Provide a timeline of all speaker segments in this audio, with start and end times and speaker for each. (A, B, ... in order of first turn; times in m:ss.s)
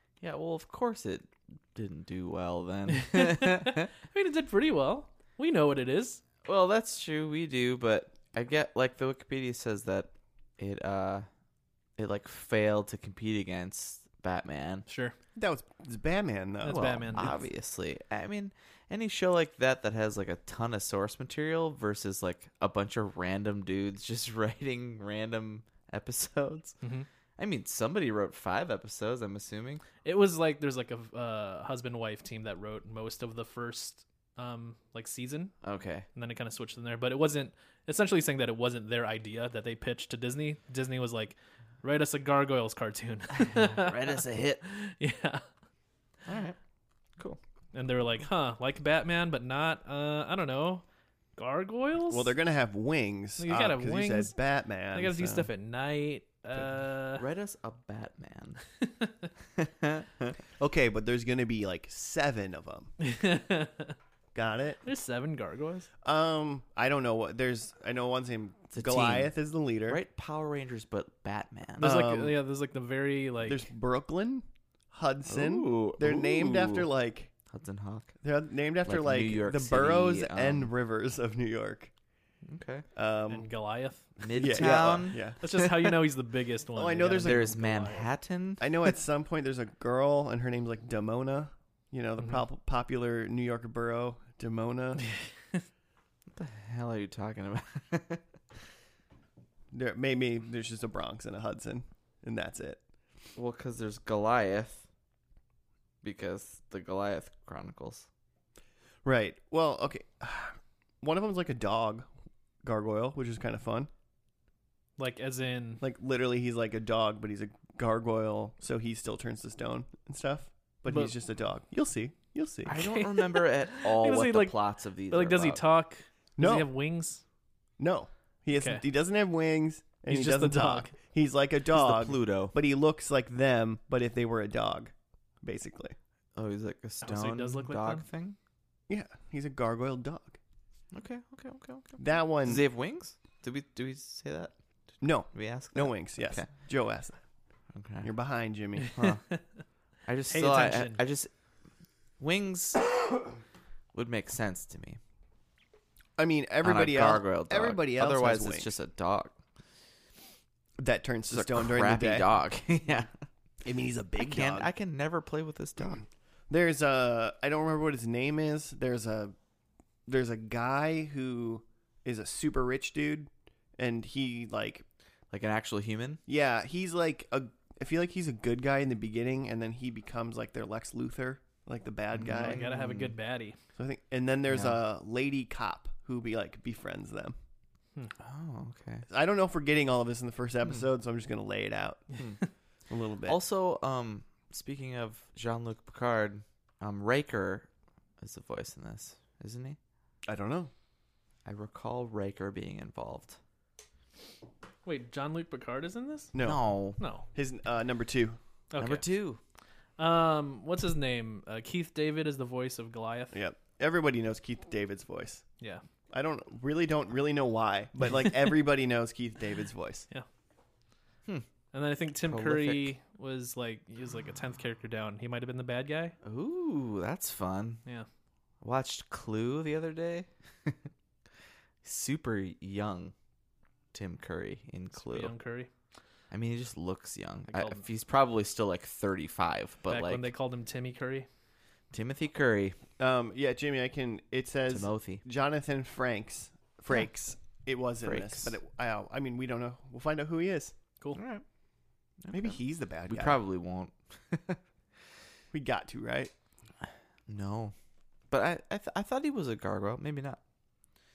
0:00.2-0:03.9 A
0:02.9-0:06.2 B
0:06.4-0:11.3 A
0:12.0-0:14.8 A
0:14.9-0:15.2 B
0:15.4-0:17.3 C
0:16.6-0:17.4 B
0:16.6-0:26.8 A
0:26.8-0:27.1 B
0:27.4-0:29.8 A
0:30.0-0:35.5 B
0:35.6-0:36.0 A
0:36.1-0:45.4 B
0:43.3-0:44.6 A
0:46.2-0:46.6 A
0:47.7-0:50.8 B
0:51.4-0:52.3 B
0:52.1-0:55.5 C
0:53.4-0:54.3 B
0:54.9-0:57.2 B
0:57.2-0:58.6 A
0:59.0-0:59.3 B
0:59.5-1:00.3 A
1:00.6-1:02.9 C
1:03.0-1:04.0 B
1:04.3-1:04.8 C
1:04.8-1:05.9 B
1:06.0-1:10.0 C
1:08.7-1:09.3 A
1:09.9-1:11.9 A
1:11.8-1:13.7 B
1:11.8-1:12.4 C
1:13.4-1:17.3 C
1:15.3-1:16.9 A
1:17.5-1:18.1 A
1:18.2-1:21.9 C
1:18.8-1:20.7 A
1:22.4-1:22.8 A
1:22.9-1:23.5 C
1:23.3-1:24.3 B
1:24.2-1:25.9 A
1:24.3-1:25.4 C
1:25.4-1:28.1 B
1:26.7-1:27.5 C
1:27.2-1:28.7 A
1:28.6-1:35.1 C
1:36.3-1:38.2 A
1:39.7-1:42.8 C
1:43.3-1:44.9 A
1:46.0-1:48.1 A
1:49.0-1:52.1 C
1:52.6-1:53.9 C
1:55.0-1:55.8 B
1:55.8-2:02.7 C
2:00.9-2:01.1 B
2:02.6-2:05.6 A
2:02.7-2:04.6 B
2:05.1-2:07.2 B
2:06.4-2:06.7 C
2:07.8-2:16.0 C
2:08.5-2:08.8 B
2:10.1-2:10.9 B
2:11.7-2:12.5 A
2:16.3-2:18.4 A
2:17.0-2:18.0 B
2:18.9-2:20.4 C
2:20.9-2:24.5 A
2:22.0-2:22.6 C
2:25.0-2:27.2 C
2:25.3-2:26.5 A
2:27.7-2:28.1 A
2:28.0-2:29.0 C
2:28.8-2:29.4 B
2:29.0-2:29.2 A
2:30.0-2:31.3 A
2:30.3-2:31.0 B
2:32.2-2:33.1 A
2:33.9-2:35.0 A
2:36.2-2:38.7 C
2:36.6-2:39.4 A
2:40.8-2:42.3 C
2:41.3-2:43.1 A
2:43.6-2:44.7 C
2:44.2-2:46.0 A
2:46.5-2:49.3 C
2:50.1-2:54.8 C
2:55.3-2:56.2 A
2:56.3-3:02.6 C
3:02.1-3:03.1 A
3:02.2-3:03.6 B
3:03.7-3:07.3 C
3:04.5-3:04.8 A
3:08.2-3:09.0 A
3:09.1-3:12.1 C
3:12.9-3:13.4 C
3:13.2-3:17.7 A
3:18.2-3:19.8 A
3:20.3-3:20.7 C
3:21.4-3:23.4 A
3:24.8-3:26.3 B
3:26.3-3:26.6 C
3:26.4-3:27.0 A
3:27.0-3:27.3 B
3:27.3-3:28.4 C
3:28.7-3:29.0 B
3:28.8-3:29.4 A
3:30.0-3:33.4 B
3:33.3-3:35.4 C
3:36.1-3:40.1 C
3:41.7-3:46.2 B
3:42.2-3:42.9 A
3:46.2-3:47.8 A
3:48.6-3:50.8 A
3:51.8-3:53.1 A
3:53.9-3:55.3 A
3:55.0-3:55.7 B
3:56.3-4:00.3 A
3:57.5-3:57.8 B
3:59.9-4:01.3 B
4:01.9-4:02.8 A
4:03.0-4:10.8 C
4:04.7-4:05.2 A
4:08.0-4:08.6 A
4:11.1-4:11.4 A
4:12.2-4:14.6 A
4:12.3-4:13.4 C
4:15.5-4:16.3 C
4:17.3-4:17.7 A
4:18.3-4:20.4 A